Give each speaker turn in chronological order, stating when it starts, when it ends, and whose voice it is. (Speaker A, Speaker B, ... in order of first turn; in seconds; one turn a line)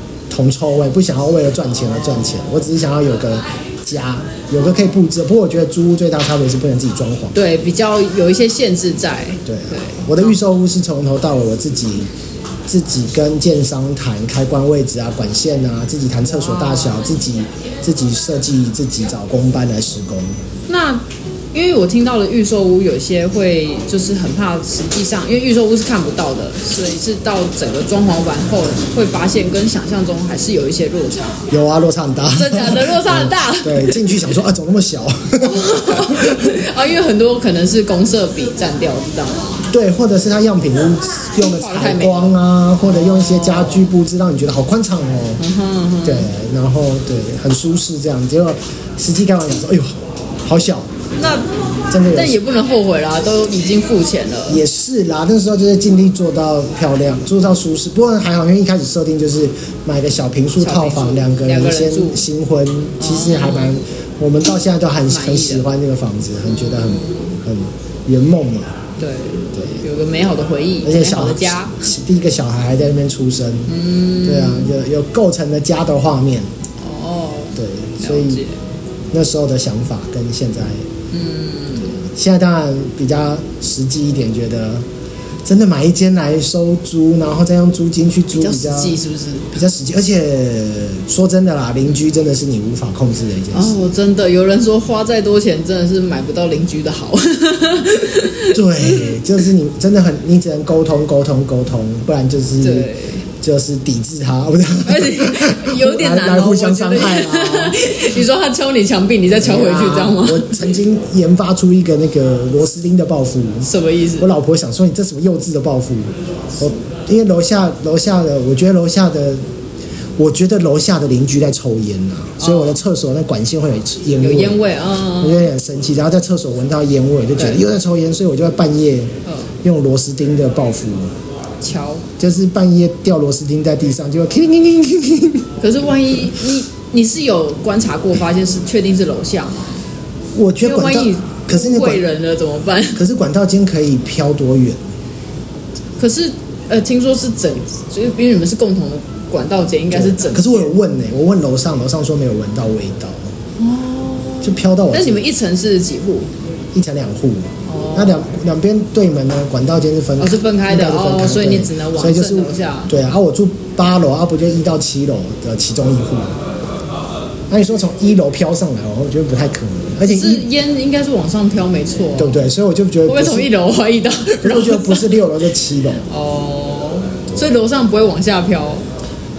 Speaker A: 0.3-7.3
Speaker B: 1.9-2.7
Speaker B: 7.3-10.4
Speaker A: 9.4-12.1
Speaker A: 12.7-20.4
Speaker B: 16.2-17.1
Speaker B: 20.7-31.4
Speaker A: 31.5-36.6
Speaker B: 32.3-34.3
Speaker B: 35.4-39.6
Speaker A: 39.7-45.4
Speaker B: 41.3-43.9
Speaker B: 45.4-46.3
Speaker A: 46.0-49.9
Speaker A: 50.4-51.0
Speaker B: 51.2-51.5
Speaker A: 51.9-52.4
Speaker B: 52.1-54.6
Speaker A: 54.5-68.8
Speaker B: 60.6-62.2
Speaker B: 63.0-63.8
Speaker B: 65.1-65.7
Speaker B: 66.5-67.4
Speaker B: 69.0-71.9
Speaker A: 69.5-69.8
Speaker A: 70.8-76.5
Speaker B: 73.7-74.7
Speaker B: 76.8-78.6
Speaker A: 77.5-78.4
Speaker A: 79.1-80.8
Speaker B: 81.1-82.0
Speaker A: 82.0-84.8
Speaker A: 85.4-89.0
Speaker B: 88.3-89.6
Speaker A: 89.5-93.8
Speaker B: 93.5-99.2
Speaker A: 98.5-102.9
Speaker B: 102.6-103.2
Speaker A: 103.4-107.8
Speaker B: 104.8-110.7
Speaker A: 109.4-113.7
Speaker B: 113.6-114.3
Speaker A: 114.2-119.4
Speaker A: 120.2-124.6
Speaker B: 122.4-122.8
Speaker B: 124.2-125.5
Speaker A: 125.2-131.1
Speaker B: 127.4-127.6
Speaker B: 129.2-129.5
Speaker B: 131.6-132.0
Speaker A: 132.2-135.5
Speaker B: 135.6-139.8
Speaker A: 140.3-142.0
Speaker B: 140.6-143.0
Speaker A: 142.9-144.8
Speaker B: 146.0-150.7
Speaker A: 149.9-153.3
Speaker B: 153.6-156.3
Speaker A: 154.4-155.2
Speaker A: 156.7-166.4
Speaker B: 157.6-158.2
Speaker B: 160.2-162.9
Speaker A: 167.5-170.4
Speaker B: 170.1-172.5
Speaker A: 172.2-173.5
Speaker B: 173.1-175.2
Speaker A: 174.4-176.1
Speaker B: 176.1-178.8